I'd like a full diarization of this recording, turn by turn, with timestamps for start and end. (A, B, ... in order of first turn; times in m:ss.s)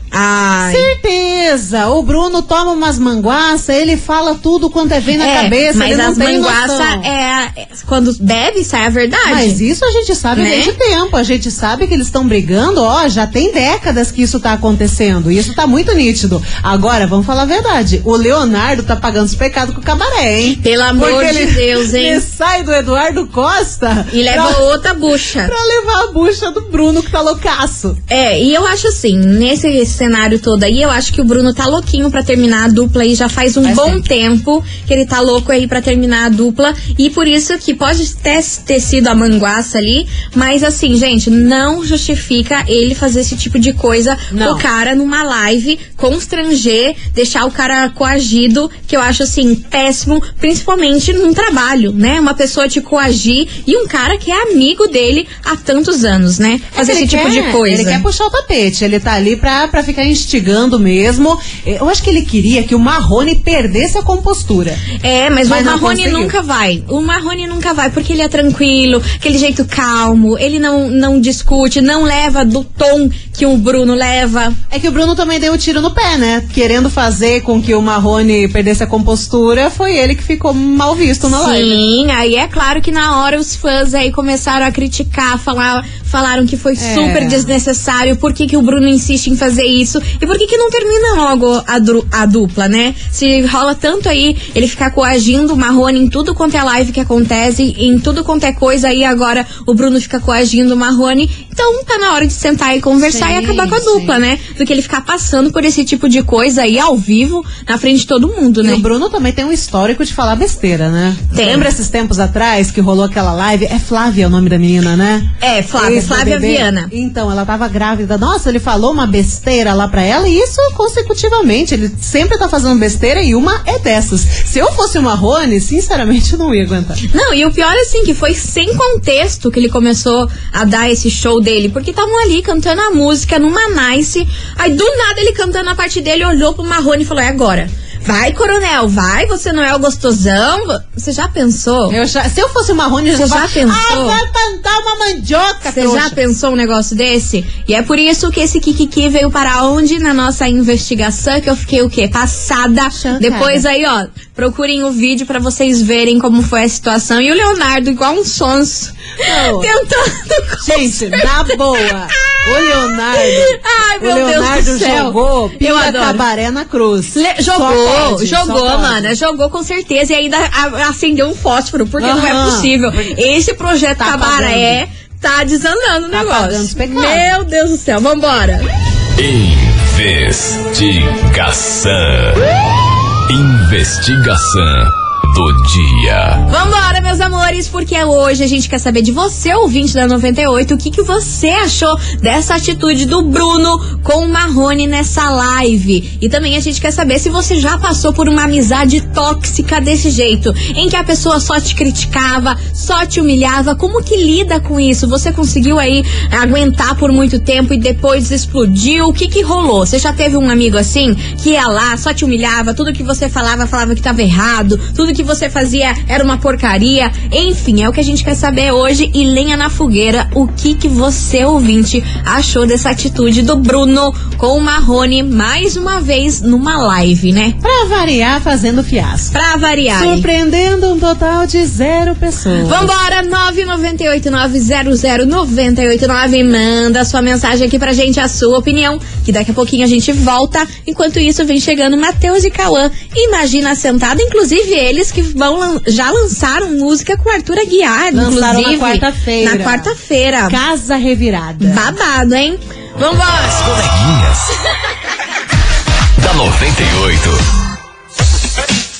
0:00.1-0:00.9 A
0:00.6-0:07.1 B
0:05.2-0:09.6 A
0:09.2-0:24.6 B
0:10.4-0:10.7 A
0:20.5-0:22.2 A
0:24.1-0:25.5 A
0:25.4-0:28.0 B
0:28.1-0:58.0 A
0:33.6-0:34.0 B
0:44.3-0:44.6 B
0:56.7-1:04.8 B
1:05.0-1:14.6 A
1:05.5-1:06.3 B
1:14.7-1:21.8 B
1:21.3-1:48.8 A
1:26.8-1:27.5 B
1:43.0-1:44.2 B
1:48.6-2:07.0 B
1:51.3-1:51.7 A
1:55.4-1:56.9 A
2:07.1-2:22.0 A
2:21.9-2:26.2 B
2:23.1-2:24.2 A
2:25.7-2:41.5 A
2:32.9-2:33.6 B
2:39.2-2:39.7 B
2:40.6-2:49.1 B
2:42.1-2:46.2 A
2:47.1-2:58.6 A
2:52.0-2:53.1 B
2:54.0-2:54.8 B
2:56.1-2:57.3 B
2:59.2-3:02.4 C
3:03.3-3:06.4 C
3:06.5-3:47.6 A
3:47.6-3:49.3 B
3:49.3-3:50.3 A
3:49.9-3:52.9 B
3:52.6-4:10.6 A
4:08.1-4:09.9 B
4:10.5-4:11.9 B
4:11.6-4:13.6 A
4:13.4-4:14.5 C
4:16.2-4:17.4 C